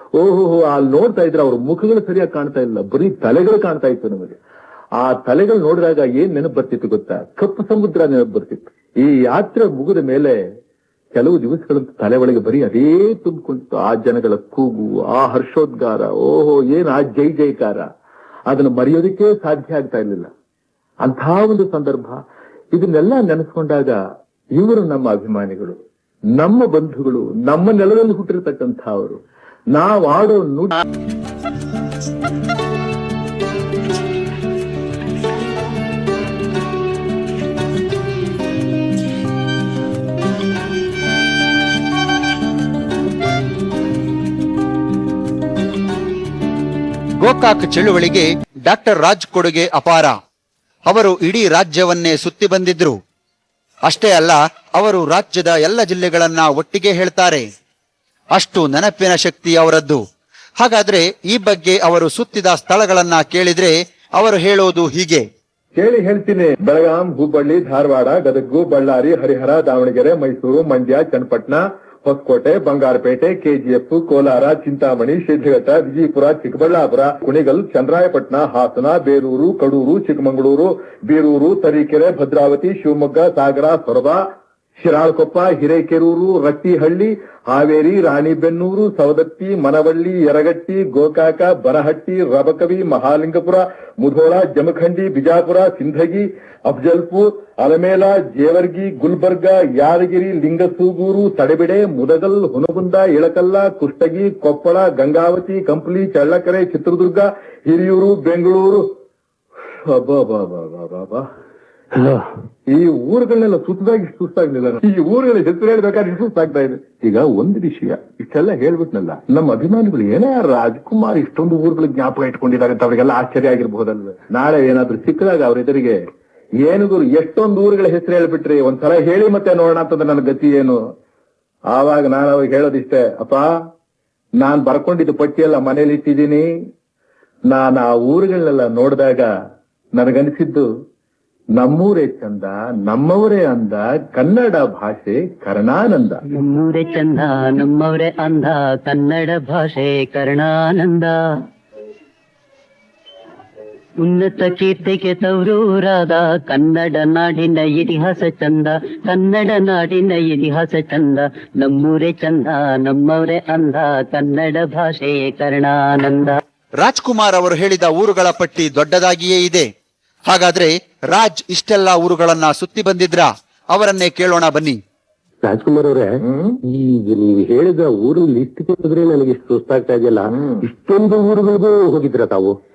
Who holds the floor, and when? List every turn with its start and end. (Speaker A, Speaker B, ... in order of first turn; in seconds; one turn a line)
Speaker A: 0.2-4.4
Speaker A: 5.0-10.4
Speaker A: 11.1-17.9
Speaker A: 18.5-20.3
Speaker A: 21.0-22.2
Speaker A: 22.7-24.0
Speaker A: 24.6-25.8
Speaker A: 26.4-29.2
Speaker A: 29.7-30.8
Speaker B: 47.2-50.1
Speaker B: 50.9-53.0
Speaker B: 53.9-57.4
Speaker B: 58.3-60.0
Speaker B: 60.6-65.2
Speaker A: 65.7-84.2
Speaker A: 84.8-108.9
Speaker A: 109.8-111.2
Speaker C: 112.0-112.3
Speaker A: 112.7-126.0
Speaker A: 126.6-130.8
Speaker A: 131.7-133.5
Speaker A: 134.4-136.5
Speaker A: 137.5-139.3
Speaker A: 140.0-140.7
Speaker A: 141.6-146.2
Speaker D: 146.3-151.2
Speaker D: 154.0-166.4
Speaker B: 166.8-169.7
Speaker B: 170.3-174.8
Speaker C: 175.4-182.5
Speaker A: 176.2-176.6
Speaker A: 180.3-180.6